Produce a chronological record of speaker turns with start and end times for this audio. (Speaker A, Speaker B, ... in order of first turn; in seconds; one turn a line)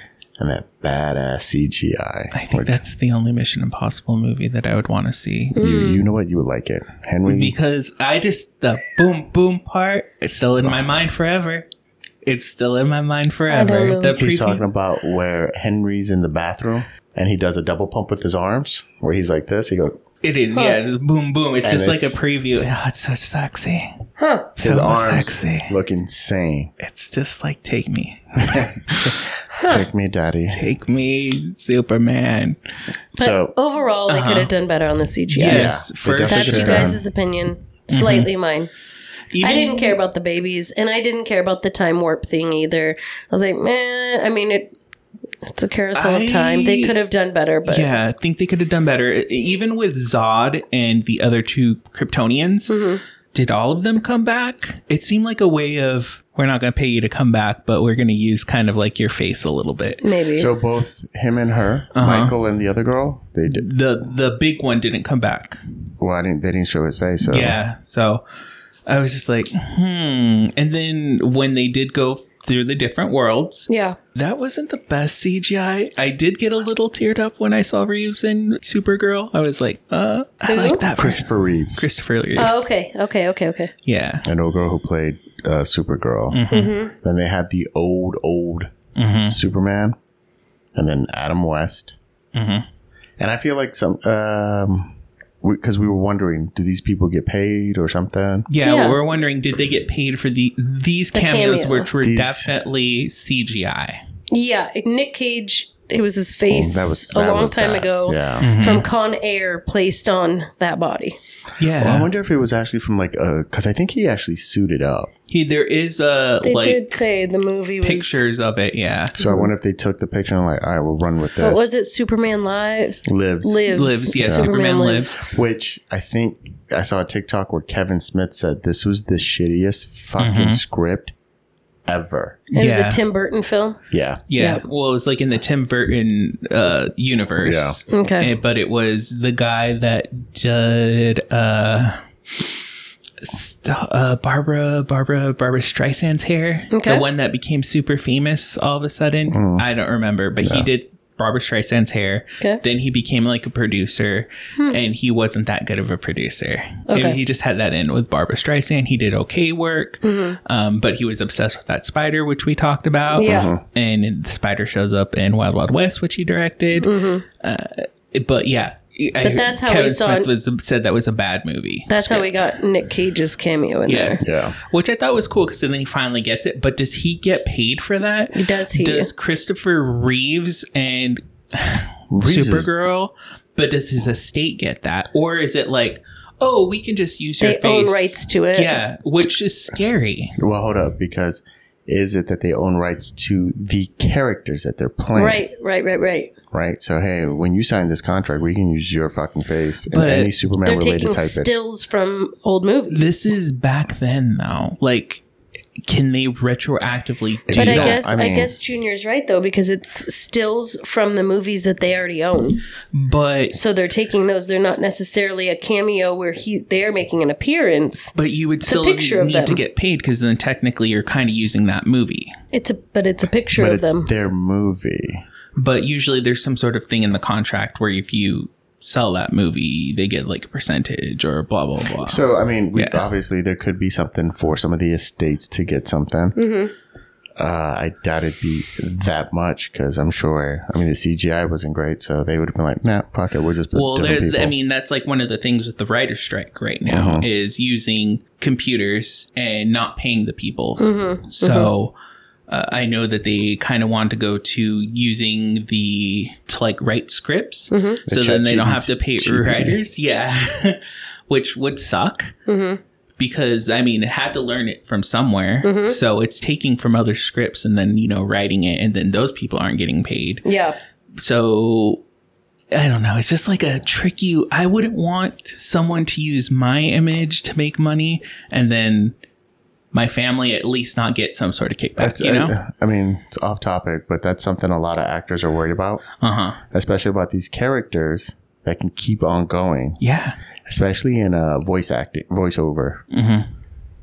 Speaker A: 0.4-2.8
Speaker B: 2.3-5.6
Speaker C: 5.5-6.1
Speaker A: 5.6-7.6
Speaker B: 7.3-11.7
Speaker A: 10.6-10.9
Speaker B: 12.2-14.7
Speaker C: 13.5-14.2
Speaker A: 14.2-20.0
Speaker B: 20.2-24.0
Speaker C: 20.5-20.8
Speaker A: 21.6-22.2
Speaker C: 24.2-24.5
Speaker B: 24.6-25.7
Speaker A: 24.6-26.7
Speaker B: 26.8-29.2
Speaker A: 28.4-30.6
Speaker C: 29.6-29.9
Speaker B: 30.5-32.6
Speaker A: 33.2-33.5
Speaker C: 33.2-35.7
Speaker B: 34.1-34.5
Speaker B: 35.3-37.0
Speaker A: 35.4-37.0
Speaker C: 36.3-38.7
Speaker B: 37.9-38.3
Speaker B: 39.3-40.0
Speaker C: 39.4-44.7
Speaker C: 45.5-47.9
Speaker B: 46.0-47.0
Speaker B: 47.7-52.7
Speaker C: 52.7-53.0
Speaker B: 53.3-60.0
Speaker C: 60.0-60.5
Speaker A: 60.3-63.7
Speaker B: 62.0-62.4
Speaker B: 63.5-65.6
Speaker A: 66.0-67.6
Speaker B: 67.2-68.2
Speaker B: 68.9-82.7
Speaker C: 73.7-74.0
Speaker C: 80.5-80.8
Speaker A: 80.9-81.9
Speaker C: 82.4-83.7
Speaker B: 83.8-84.3
Speaker A: 84.2-88.7
Speaker B: 86.3-86.8
Speaker C: 86.5-86.9
Speaker B: 89.0-89.4
Speaker A: 89.3-90.0
Speaker A: 90.8-92.0
Speaker B: 92.3-92.7
Speaker A: 93.2-98.5
Speaker B: 98.5-104.0
Speaker C: 98.6-99.0
Speaker C: 101.1-101.9
Speaker A: 102.0-102.5
Speaker C: 104.3-111.2
Speaker A: 106.5-108.5
Speaker B: 108.4-108.9
Speaker B: 111.6-112.1
Speaker A: 111.8-115.1
Speaker B: 115.3-116.9
Speaker C: 116.4-118.2
Speaker B: 117.8-119.2
Speaker A: 119.2-121.7
Speaker C: 121.4-125.2
Speaker A: 123.1-124.5
Speaker B: 123.7-125.3
Speaker A: 125.3-131.1
Speaker B: 130.2-130.6
Speaker A: 131.9-132.4
Speaker B: 132.5-133.0
Speaker C: 132.5-133.8
Speaker A: 133.9-134.2
Speaker B: 134.3-142.6
Speaker C: 134.4-134.6
Speaker A: 137.4-137.8
Speaker C: 137.9-138.3
Speaker B: 143.2-172.5
Speaker C: 146.7-147.1
Speaker A: 149.3-149.7
Speaker A: 150.4-150.7
Speaker C: 156.9-157.2
Speaker C: 160.0-160.4
Speaker C: 163.2-163.5
Speaker A: 163.2-163.6
Speaker C: 166.8-167.2
Speaker C: 169.2-170.3
Speaker C: 171.9-174.2
Speaker B: 173.9-190.4
Speaker A: 174.2-174.6
Speaker C: 178.3-179.1
Speaker A: 182.1-182.7
Speaker C: 187.4-188.8
Speaker A: 190.4-195.5
Speaker C: 195.2-196.3
Speaker A: 196.5-201.5
Speaker B: 199.9-200.3
Speaker C: 200.6-203.4
Speaker B: 202.9-205.2
Speaker B: 205.8-208.0
Speaker A: 207.5-208.5
Speaker C: 207.6-212.6
Speaker B: 212.9-213.6
Speaker C: 213.5-218.1
Speaker B: 218.2-222.4
Speaker C: 218.7-219.6
Speaker C: 222.5-224.1
Speaker A: 223.6-225.2
Speaker B: 225.6-232.2
Speaker A: 232.0-236.4
Speaker B: 232.7-233.1
Speaker C: 236.4-236.7
Speaker A: 237.4-244.5
Speaker B: 243.7-251.9
Speaker A: 246.9-247.3
Speaker C: 250.8-251.7
Speaker B: 252.5-262.4
Speaker C: 257.7-258.0
Speaker A: 258.1-259.8
Speaker C: 262.5-262.8
Speaker B: 263.2-270.5
Speaker C: 265.6-266.0
Speaker C: 270.4-270.8
Speaker B: 271.2-272.0
Speaker B: 272.7-279.1
Speaker B: 279.9-282.6
Speaker A: 282.0-286.1
Speaker B: 286.2-286.6
Speaker A: 286.7-290.0
Speaker B: 290.0-290.4
Speaker A: 290.7-293.1
Speaker B: 293.1-293.5